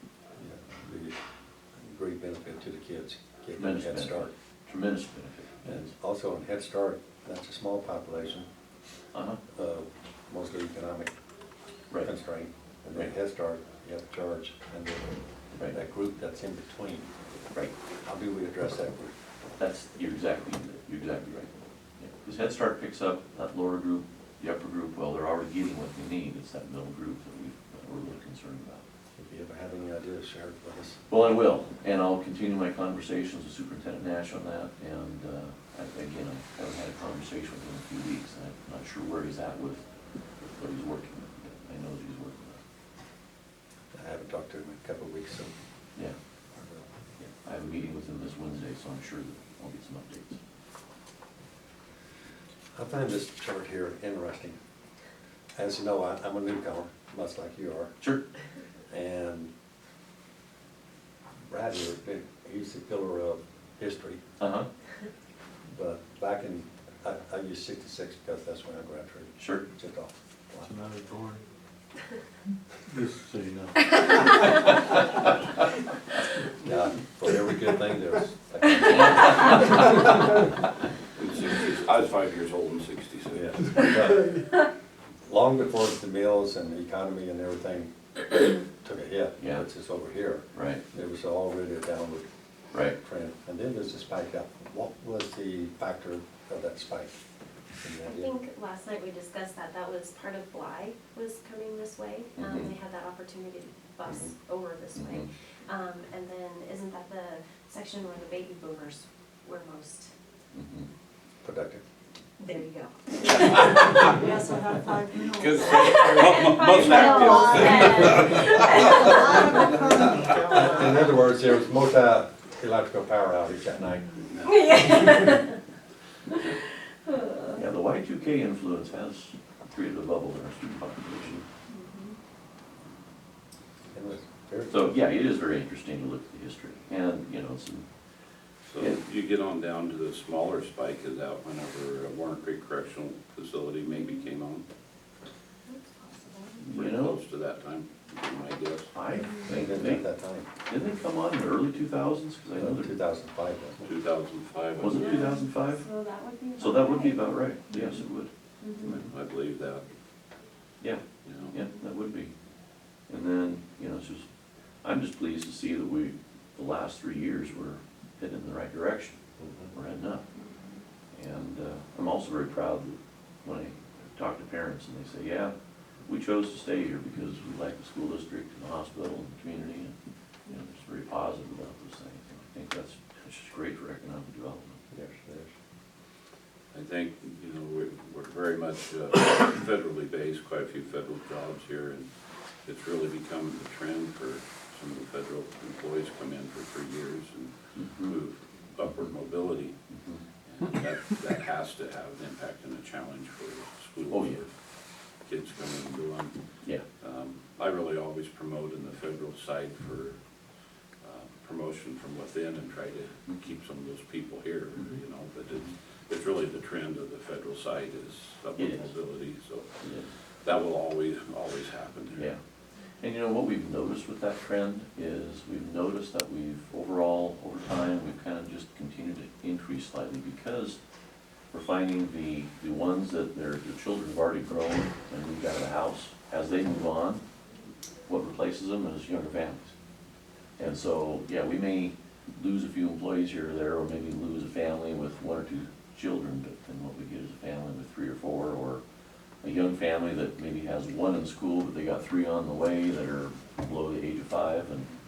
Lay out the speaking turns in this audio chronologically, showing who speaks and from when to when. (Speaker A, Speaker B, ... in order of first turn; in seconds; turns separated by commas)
Speaker A: 0.4-1.2, Speaker A: 1.8-4.3, Speaker B: 3.6-5.9, Speaker A: 5.6-8.5, Speaker B: 9.1-9.4, Speaker A: 9.5-11.1, Speaker A: 12.0-17.1, Speaker A: 18.0-19.1, Speaker B: 19.6-28.8, Speaker A: 29.2-31.0, Speaker B: 31.1-39.9, Speaker B: 40.4-42.6, Speaker A: 43.9-45.5, Speaker A: 46.5-46.9, Speaker B: 47.2-50.4, Speaker A: 52.7-54.5, Speaker A: 55.5-58.0, Speaker A: 58.9-59.5, Speaker A: 61.5-64.2, Speaker B: 64.4-64.7, Speaker A: 65.7-70.7, Speaker B: 69.4-69.6, Speaker C: 70.6-71.4, Speaker C: 72.9-74.4, Speaker A: 76.6-80.4, Speaker D: 81.2-83.5, Speaker A: 83.3-84.5, Speaker A: 85.2-92.2, Speaker B: 89.4-89.7, Speaker B: 90.5-90.8, Speaker A: 92.9-97.1, Speaker A: 97.8-98.3, Speaker E: 98.0-110.1, Speaker B: 102.4-102.7, Speaker A: 104.0-104.3, Speaker B: 105.0-105.3, Speaker B: 110.5-110.8, Speaker A: 111.4-111.8, Speaker E: 112.4-114.3, Speaker F: 114.0-115.6, Speaker D: 115.3-119.2, Speaker E: 115.6-120.9, Speaker F: 119.2-120.5, Speaker A: 120.4-124.2, Speaker D: 124.3-125.0, Speaker E: 124.4-125.6, Speaker E: 127.0-127.6, Speaker B: 127.5-131.4, Speaker E: 131.7-132.2, Speaker A: 133.9-134.9, Speaker B: 134.7-137.9, Speaker D: 138.7-144.7, Speaker E: 145.7-146.6, Speaker B: 146.6-147.2, Speaker D: 146.7-148.9, Speaker B: 148.9-150.1, Speaker A: 149.4-150.5, Speaker B: 150.7-152.9, Speaker A: 152.6-153.9, Speaker D: 153.8-155.2, Speaker B: 154.8-155.9, Speaker E: 154.9-157.3, Speaker B: 156.5-158.3, Speaker D: 157.7-158.0, Speaker E: 158.6-158.9, Speaker D: 158.8-159.8, Speaker B: 160.8-162.3, Speaker D: 161.2-161.5, Speaker B: 163.1-164.2, Speaker B: 164.8-169.2, Speaker A: 169.4-169.7, Speaker B: 169.7-170.2, Speaker E: 170.4-170.7, Speaker B: 171.1-175.5, Speaker B: 176.1-179.9, Speaker B: 180.5-184.8, Speaker A: 184.9-185.5, Speaker D: 186.7-192.1, Speaker D: 192.7-199.8, Speaker B: 197.8-198.1, Speaker D: 200.5-204.5, Speaker B: 204.1-204.4, Speaker D: 205.2-206.3, Speaker D: 207.0-210.2, Speaker D: 211.0-219.7, Speaker B: 218.6-218.9, Speaker B: 219.8-220.1, Speaker D: 220.4-222.3, Speaker B: 223.0-230.8, Speaker B: 231.5-237.2, Speaker B: 238.1-239.7, Speaker B: 240.6-248.8, Speaker B: 249.4-254.9